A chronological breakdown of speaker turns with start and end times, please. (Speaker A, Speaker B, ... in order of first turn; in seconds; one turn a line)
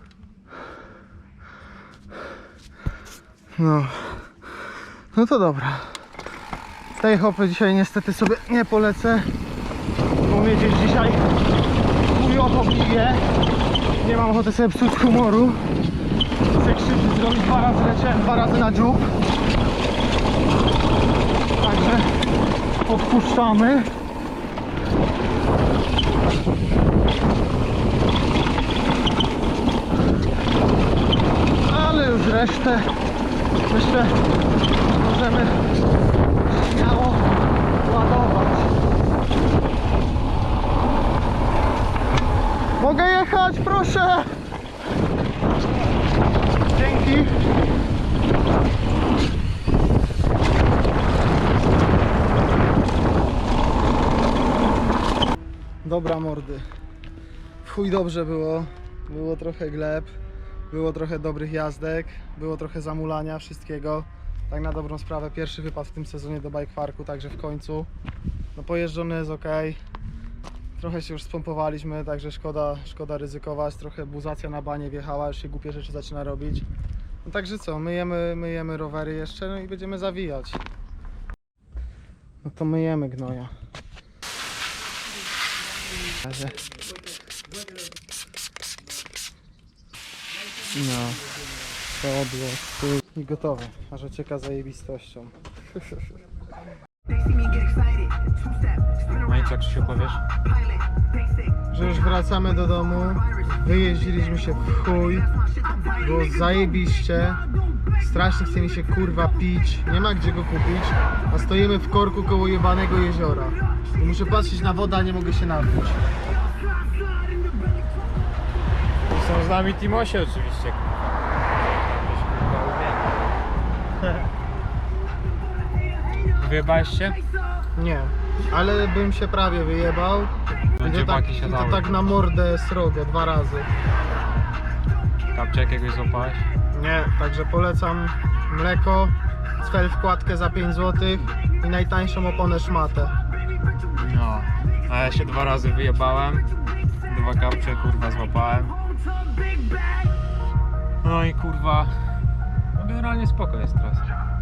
Speaker A: 3.5-4.4
Speaker A: 5.1-6.0
Speaker A: 7.0-9.3
Speaker A: 10.3-11.2
Speaker A: 12.1-13.2
Speaker A: 14.0-15.6
Speaker A: 16.6-19.1
Speaker A: 21.6-22.1
Speaker A: 22.8-23.9
Speaker A: 31.7-32.9
Speaker A: 33.7-34.1
Speaker A: 34.9-35.6
Speaker A: 36.5-37.2
Speaker A: 37.8-38.8
Speaker A: 42.8-44.4
Speaker A: 46.7-47.3
Speaker A: 55.8-56.6
Speaker A: 57.6-60.1
Speaker A: 60.7-67.9
Speaker A: 68.5-69.8
Speaker A: 70.8-76.7
Speaker A: 77.2-80.6
Speaker A: 82.4-83.5
Speaker A: 86.2-86.6
Speaker A: 90.7-91.2
Speaker A: 91.9-95.3
Speaker B: 99.2-100.2
Speaker A: 101.7-105.3
Speaker A: 105.9-107.4
Speaker A: 108.0-116.0
Speaker B: 119.0-120.8
Speaker B: 122.0-123.1
Speaker B: 126.4-127.2
Speaker A: 127.8-133.7
Speaker B: 130.8-132.1
Speaker B: 135.3-136.4
Speaker A: 136.7-143.2
Speaker B: 143.9-148.8
Speaker B: 151.0-151.9
Speaker B: 152.7-154.1